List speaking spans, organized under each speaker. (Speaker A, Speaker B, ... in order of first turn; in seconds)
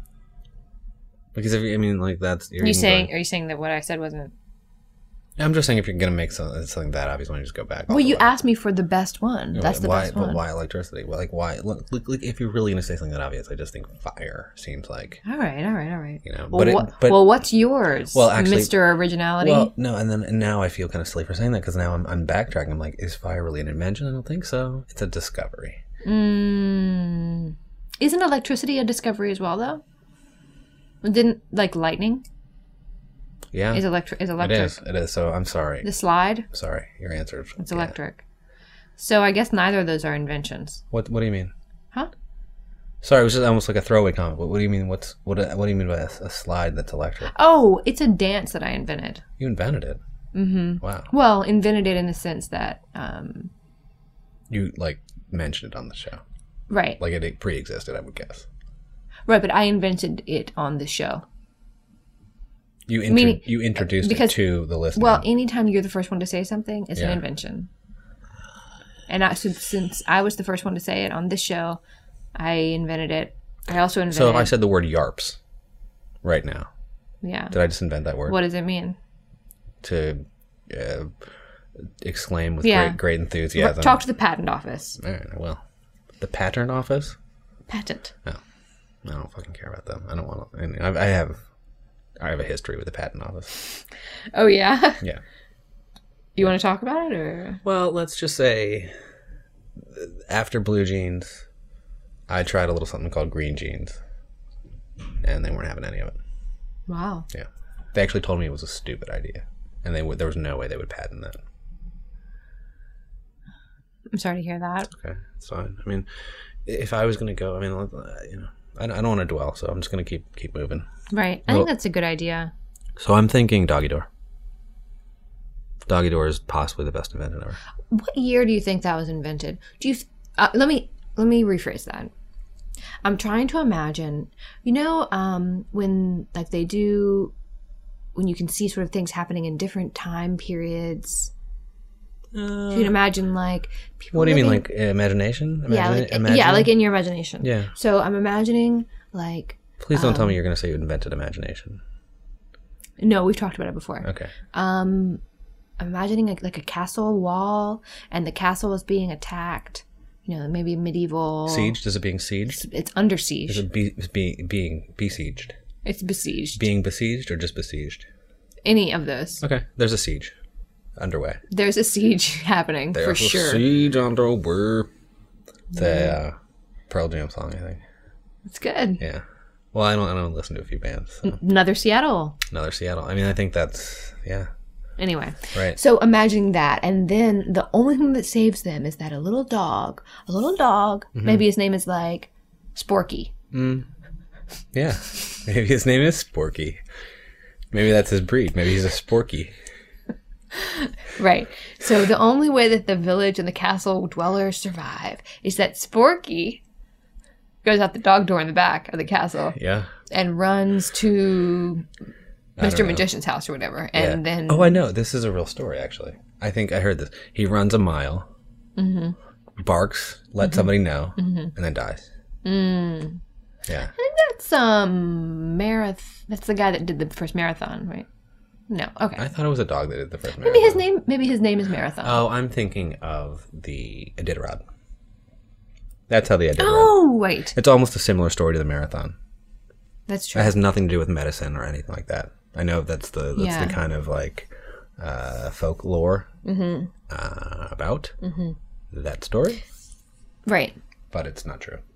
Speaker A: 1.3-3.1, 5.4-8.3, 9.5-15.2, 16.2-17.4, 18.1-18.8, 19.4-25.8, 33.5-35.9, 36.5-37.9, 40.9-41.5, 43.0-47.3, 49.4-50.0, 50.8-51.1, 54.5-56.2, 57.0-58.5, 62.9-65.2, 66.9-67.2, 74.1-75.4, 76.2-76.7, 77.5-78.4, 79.8-81.1, 82.0-84.0, 85.0-85.6, 86.2-87.2, 89.0-91.4, 92.2-93.6, 97.6-98.9, 99.8-101.4, 102.3-104.0, 105.2-106.2, 107.3-111.4, 114.9-116.1, 116.6-120.9, 123.0-124.1, 125.8-127.6, 142.3-143.0, 144.1-146.8, 147.4-147.7, 149.8-151.8, 154.0-154.3, 161.4-162.6, 163.5-165.5, 166.6-168.1, 169.4-170.3, 171.0-171.4, 172.9-174.9, 175.7-176.3, 176.9-177.8, 179.0-181.4, 182.5-184.5, 191.2-191.4, 193.5-193.9, 194.7-196.8, 197.7-199.5, 209.5-209.9, 212.6-213.0, 213.9-218.3, 219.6-222.1, 223.7-223.9, 229.2-230.8, 232.0-234.6, 236.1-239.1, 240.3-246.3, 247.1-248.1, 248.9-249.6, 251.1-251.8
Speaker B: 2.6-4.3, 7.9-10.4, 15.2-19.7, 26.0-29.8, 31.0-32.2, 33.7-34.8, 35.8-36.5, 37.6-38.2, 39.0-40.8, 47.3-49.2, 50.3-53.5, 56.7-57.0, 59.3-61.2, 63.1-64.4, 64.9-67.7, 69.1-71.8, 72.3-74.5, 77.2-77.5, 78.2-79.0, 82.6-83.0, 83.5-85.0, 87.7-88.1, 94.3-95.0, 96.3-97.6, 106.9-107.3, 114.1-114.9, 121.1-122.5, 127.9-132.1, 133.0-137.3, 138.1-141.3, 142.7-144.6, 145.7-150.4, 153.0-155.2, 155.8-161.7, 162.6-163.6, 165.8-166.7, 168.6-169.4, 171.5-173.6, 175.7-176.2, 178.4-179.0, 181.2-182.4, 185.0-193.3, 200.5-206.6, 207.6-209.6, 210.1-211.9, 212.6-214.8, 218.8-219.1, 220.4-221.5, 222.4-223.2, 223.9-228.1, 228.7-229.2, 230.4-232.2, 236.6-237.5, 240.1-240.6, 243.3-243.8, 246.4-246.9, 248.2-248.6, 250.4-250.8